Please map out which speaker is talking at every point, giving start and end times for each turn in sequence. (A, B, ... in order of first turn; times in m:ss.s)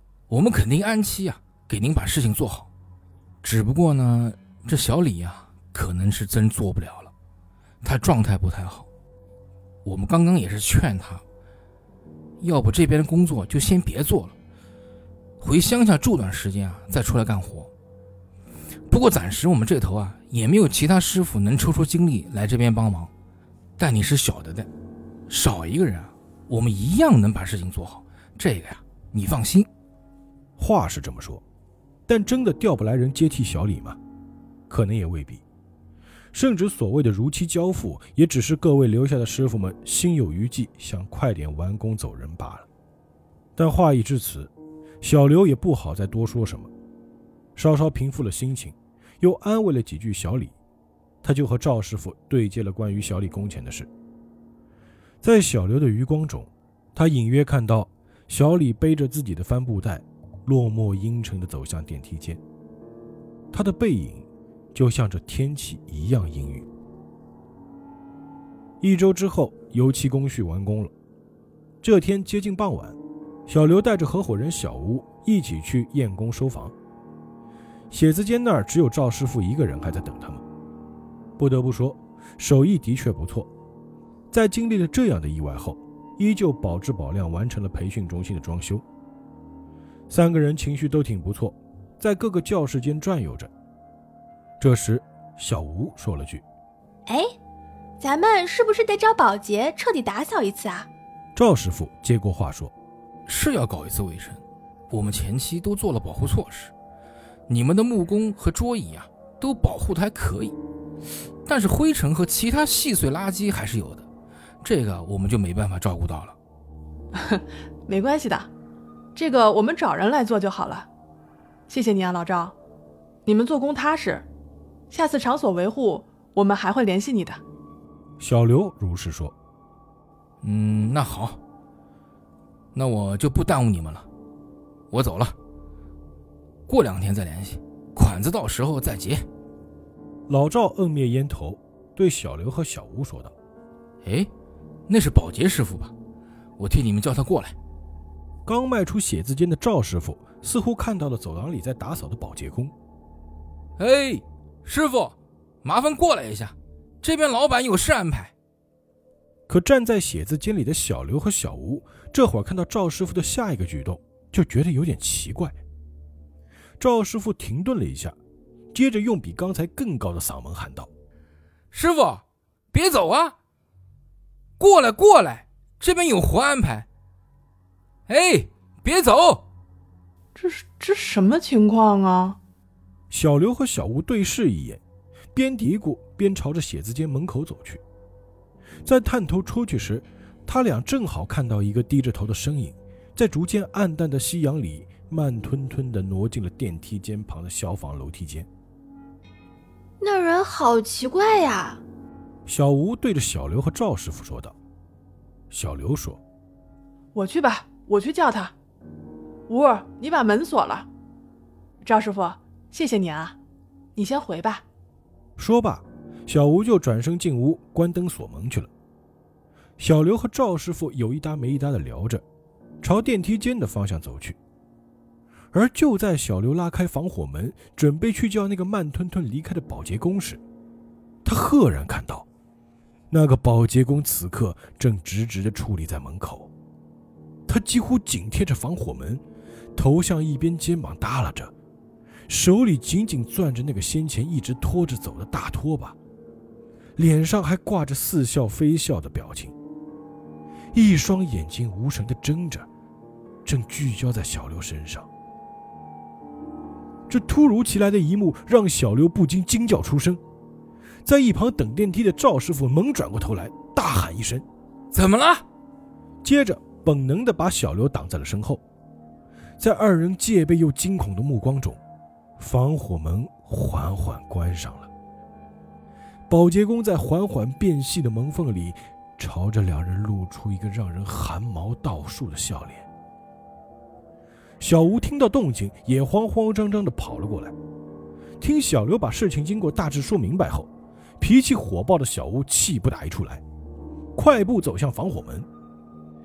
0:00.3-0:02.7 A
0:03.4-0:07.1 A
0:07.8-0:08.9 A
0:09.8-0:11.2 A
0:12.4-0:14.4 A
0:15.4-0:17.7 A
0:18.9-0:23.1 A
0:23.8-0:24.7 A
0:25.3-0:29.7 A
0:30.6-0:31.4 B
0:32.1-0:34.0 B
0:34.7-0:35.4 B
0:36.3-0:42.7 B
0:43.6-0:46.7 B
0:47.6-0:50.5 B
0:51.2-0:53.9 B
0:55.2-1:02.4 B
1:03.5-1:06.7 B
1:08.8-1:10.9 B
1:11.8-1:16.7 B
1:17.9-1:20.4 B
1:21.4-1:23.5 B
1:24.3-1:28.8 B
1:30.1-1:33.5 B
1:34.6-1:36.4 B
1:38.0-1:40.9 C
1:38.5-1:40.5 D
1:41.4-1:42.7 B
1:43.3-1:46.7 A
1:47.5-1:50.6 A
1:51.4-1:54.0 A
1:54.6-1:56.4 A
1:57.1-1:58.5 C
1:59.2-2:00.9 C
2:01.7-2:02.5 C
2:03.2-2:04.2 C
2:04.9-2:07.4 C
2:08.2-2:09.3 B
2:10.4-2:11.4 A
2:12.7-2:14.1 A
2:14.9-2:15.4 A
2:16.7-2:19.2 A
2:20.3-2:23.3 B
2:24.0-2:24.3 A
2:24.9-2:25.9 A
2:26.6-2:27.6 A
2:28.4-2:32.7 B
2:33.8-2:38.3 A
2:39.5-2:45.6 B
2:46.8-2:48.2 B
2:48.7-2:50.9 B
2:51.7-2:53.4 A
2:54.6-2:56.9 A
2:58.1-2:59.4 A
3:00.3-3:02.4 C
3:03.1-3:04.8 B
3:05.3-3:07.8 B
3:08.8-3:18.5 B
3:20.0-3:21.8 D
3:22.5-3:24.5 B
3:25.5-3:26.2 B
3:27.1-3:28.5 C
3:29.5-3:30.9 C
3:31.8-3:33.4 C
3:34.0-3:34.6 C
3:35.4-3:38.7 B
3:39.8-3:42.2 B
3:42.8-3:44.4 B
3:45.5-3:50.4 B
3:51.2-3:52.2 B
3:53.1-3:56.5 B
3:57.5-3:59.2 B
3:59.8-4:01.5 B
4:02.3-4:06.0 B
4:07.0-4:09.5 B
4:10.7-4:12.7 B
4:13.4-4:15.1 B
4:17.1-4:20.2 B
4:21.0-4:24.4 B
4:24.9-4:25.4 A
4:26.2-4:28.6 B
4:29.6-4:31.8 B
4:32.4-4:34.9 B
4:36.3-4:42.9 B
4:44.6-4:47.5 B
4:48.4-4:53.4 B
4:54.1-4:55.5 B